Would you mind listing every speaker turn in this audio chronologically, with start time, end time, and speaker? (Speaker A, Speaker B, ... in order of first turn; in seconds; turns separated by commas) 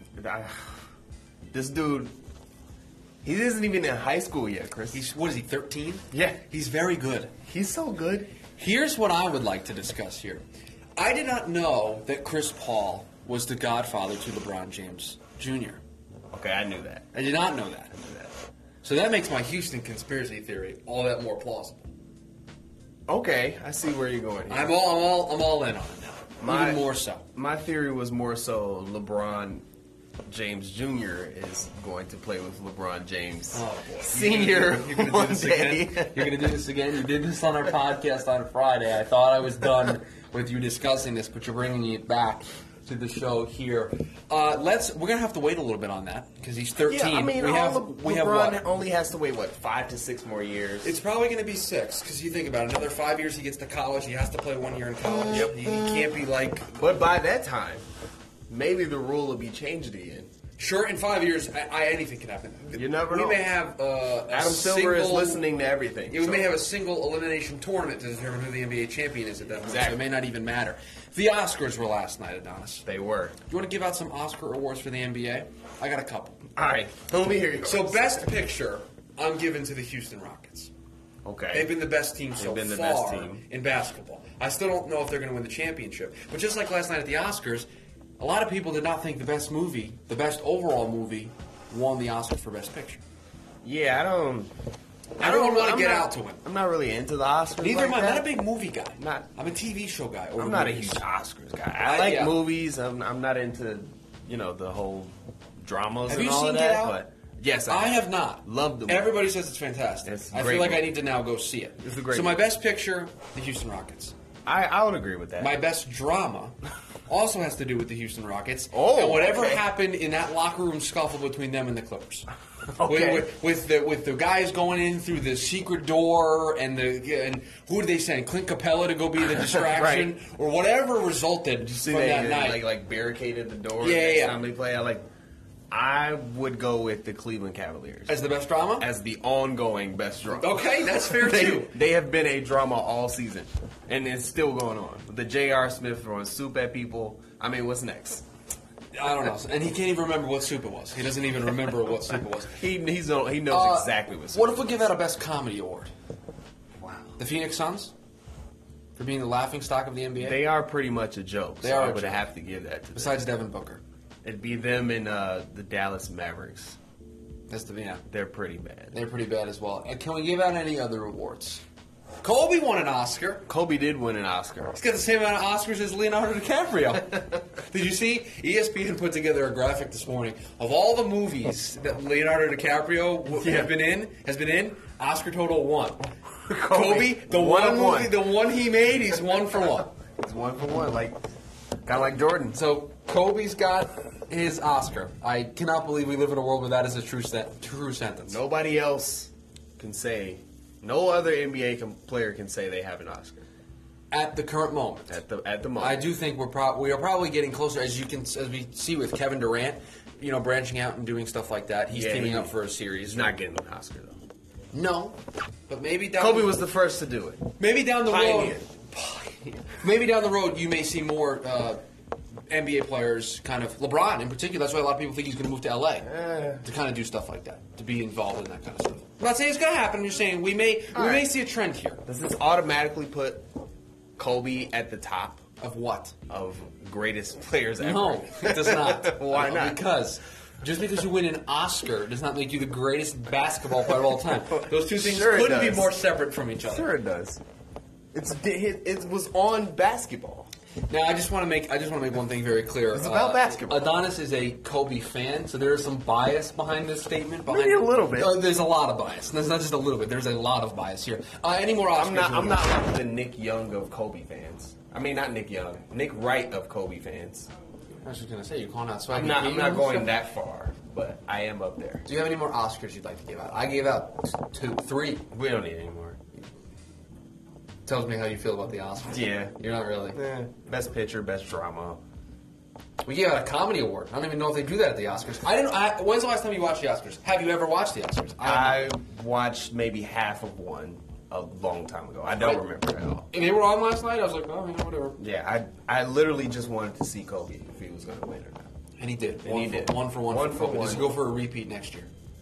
Speaker A: 0.1-0.7, Speaker A: 1.5-2.1, Speaker A: 3.2-5.0, Speaker B: 4.9-7.3, Speaker A: 6.1-6.4, Speaker A: 7.5-8.3, Speaker B: 8.6-10.4, Speaker B: 11.0-15.8, Speaker A: 16.3-17.1, Speaker B: 17.1-21.9, Speaker A: 23.1-24.8, Speaker B: 24.5-27.3, Speaker A: 26.4-29.6, Speaker A: 30.3-36.5, Speaker B: 33.5-48.8, Speaker A: 46.8-50.9, Speaker B: 50.8-56.8, Speaker A: 55.3-56.1, Speaker A: 56.7-57.9, Speaker A: 58.5-60.3, Speaker B: 60.6-65.4, Speaker A: 62.7-63.5, Speaker A: 64.3-66.6, Speaker B: 66.1-72.8, Speaker A: 69.6-70.0, Speaker A: 72.8-73.4, Speaker B: 73.5-76.4, Speaker A: 76.5-78.2, Speaker B: 77.6-80.7, Speaker A: 81.2-81.7, Speaker B: 81.5-87.7, Speaker A: 82.4-83.4, Speaker B: 88.2-93.0, Speaker A: 93.6-94.5, Speaker B: 95.2-96.4, Speaker A: 95.2-98.3, Speaker B: 97.6-101.0, Speaker A: 99.0-99.3, Speaker A: 100.3-109.2, Speaker B: 101.8-102.4, Speaker B: 106.1-107.0, Speaker B: 107.7-114.1, Speaker A: 110.0-110.9, Speaker A: 111.8-112.4, Speaker A: 114.5-115.6, Speaker B: 115.4-116.6, Speaker B: 117.1-122.3, Speaker A: 118.7-119.6, Speaker A: 122.8-123.3, Speaker B: 122.8-132.6, Speaker A: 129.4-130.2, Speaker A: 131.8-135.0, Speaker B: 133.8-134.4, Speaker A: 135.7-138.2, Speaker B: 138.1-138.9, Speaker A: 138.8-148.2, Speaker B: 140.3-141.7, Speaker B: 148.9-152.6, Speaker A: 152.5-154.7, Speaker B: 153.5-155.9, Speaker A: 156.8-157.2, Speaker B: 157.2-157.9, Speaker B: 158.9-160.4, Speaker A: 160.2-163.2, Speaker B: 161.6-162.2, Speaker B: 162.9-163.8, Speaker A: 164.2-166.8, Speaker B: 167.5-168.0, Speaker A: 168.1-168.9, Speaker B: 168.9-171.6, Speaker B: 172.2-173.4, Speaker A: 173.5-174.8, Speaker B: 174.7-186.1, Speaker A: 183.3-183.8, Speaker A: 186.5-188.2, Speaker B: 186.7-189.9, Speaker A: 190.2-191.2, Speaker A: 191.8-192.6, Speaker B: 192.5-198.4, Speaker A: 198.2-203.4, Speaker B: 204.1-205.2, Speaker A: 205.1-206.1, Speaker B: 205.8-213.4, Speaker A: 211.9-212.5, Speaker A: 213.1-214.2, Speaker B: 214.7-216.6, Speaker A: 216.2-217.5, Speaker B: 217.6-221.8, Speaker A: 218.0-218.7, Speaker B: 222.5-226.1, Speaker A: 226.1-226.6, Speaker B: 226.6-232.0, Speaker A: 230.9-231.2, Speaker A: 232.1-233.4, Speaker A: 234.2-235.4, Speaker B: 235.6-236.2, Speaker A: 236.3-239.8, Speaker B: 237.8-246.9, Speaker A: 244.9-245.9, Speaker A: 246.6-247.4, Speaker A: 248.1-250.5, Speaker B: 250.9-262.7, Speaker A: 252.9-254.0, Speaker A: 257.4-258.4, Speaker A: 261.9-267.5, Speaker B: 268.0-270.1, Speaker A: 269.1-272.1, Speaker B: 272.0-275.2, Speaker A: 275.3-276.2, Speaker B: 277.9-280.2, Speaker A: 279.1-279.5, Speaker A: 280.1-282.0, Speaker B: 283.0-288.9, Speaker A: 288.4-293.2, Speaker B: 293.3-295.2, Speaker A: 295.2-298.7, Speaker B: 299.0-302.1, Speaker A: 299.4-301.2